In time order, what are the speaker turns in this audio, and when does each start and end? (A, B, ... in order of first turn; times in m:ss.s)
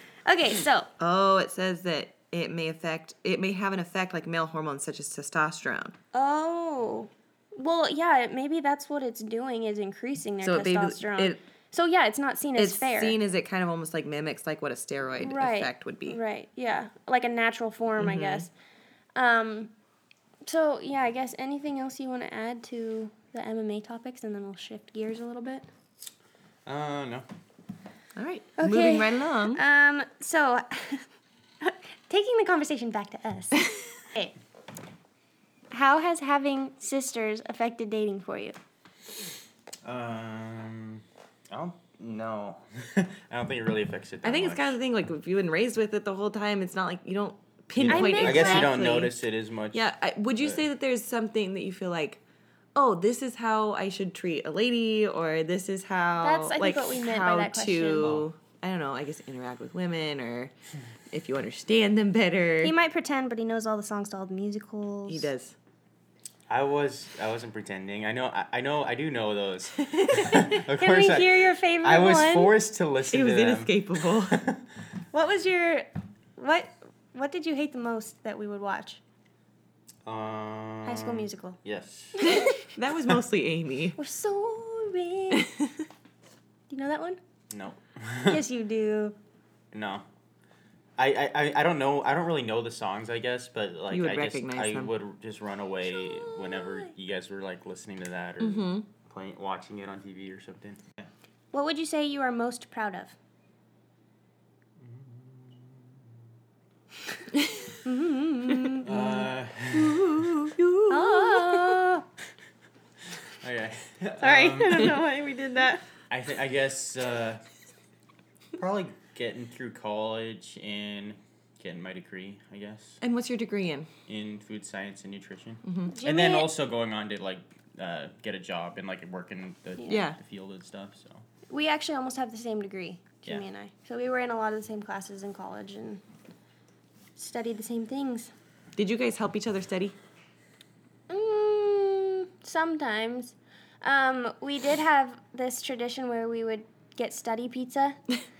0:00.3-0:00.9 A
0:01.0-0:06.0 B
0:06.1-0:13.2 A
0:10.4-0:11.4 B
0:12.6-0:16.2 B
0:15.2-0:18.5 A
0:18.0-0:18.5 B
0:19.2-0:19.7 A
0:20.4-0:25.7 A
0:26.7-0:27.3 C
0:28.2-0:29.6 B
0:28.6-0:31.1 A
0:31.6-0:34.3 A
0:35.7-0:38.6 A
0:39.8-0:44.8 C
0:44.2-0:49.2 B
0:47.7-0:50.6 C
0:47.9-0:48.7 A
0:49.7-0:52.2 B
0:52.8-1:00.5 B
0:56.2-0:58.2 A
0:58.0-0:58.3 C
1:01.1-1:02.7 B
1:02.6-1:05.3 A
1:05.1-1:05.5 B
1:06.5-1:14.6 C
1:10.3-1:12.5 A
1:13.1-1:14.4 B
1:15.1-1:19.0 A
1:20.0-1:22.3 C
1:20.9-1:21.6 A
1:22.2-1:22.7 A
1:22.2-1:24.0 B
1:24.0-1:25.5 A
1:26.7-1:27.2 A
1:27.5-1:28.4 C
1:28.3-1:29.2 A
1:29.7-1:30.1 C
1:31.0-1:41.1 C
1:33.9-1:34.9 B
1:35.9-1:36.9 A
1:38.4-1:38.8 B
1:41.5-1:43.2 A
1:44.8-1:46.0 C
1:47.8-1:48.9 A
1:48.8-1:50.3 C
1:48.9-1:51.8 B
1:50.9-1:52.1 A
1:53.4-1:55.0 C
1:54.2-1:55.8 A
1:56.1-1:57.4 C
1:58.6-2:03.0 C
2:03.0-2:03.9 B
2:04.1-2:11.2 C
2:05.7-2:05.9 B
2:05.9-2:06.5 A
2:09.9-2:10.2 B
2:11.5-2:16.0 A
2:17.2-2:18.3 A
2:18.8-2:19.9 B
2:21.1-2:28.0 A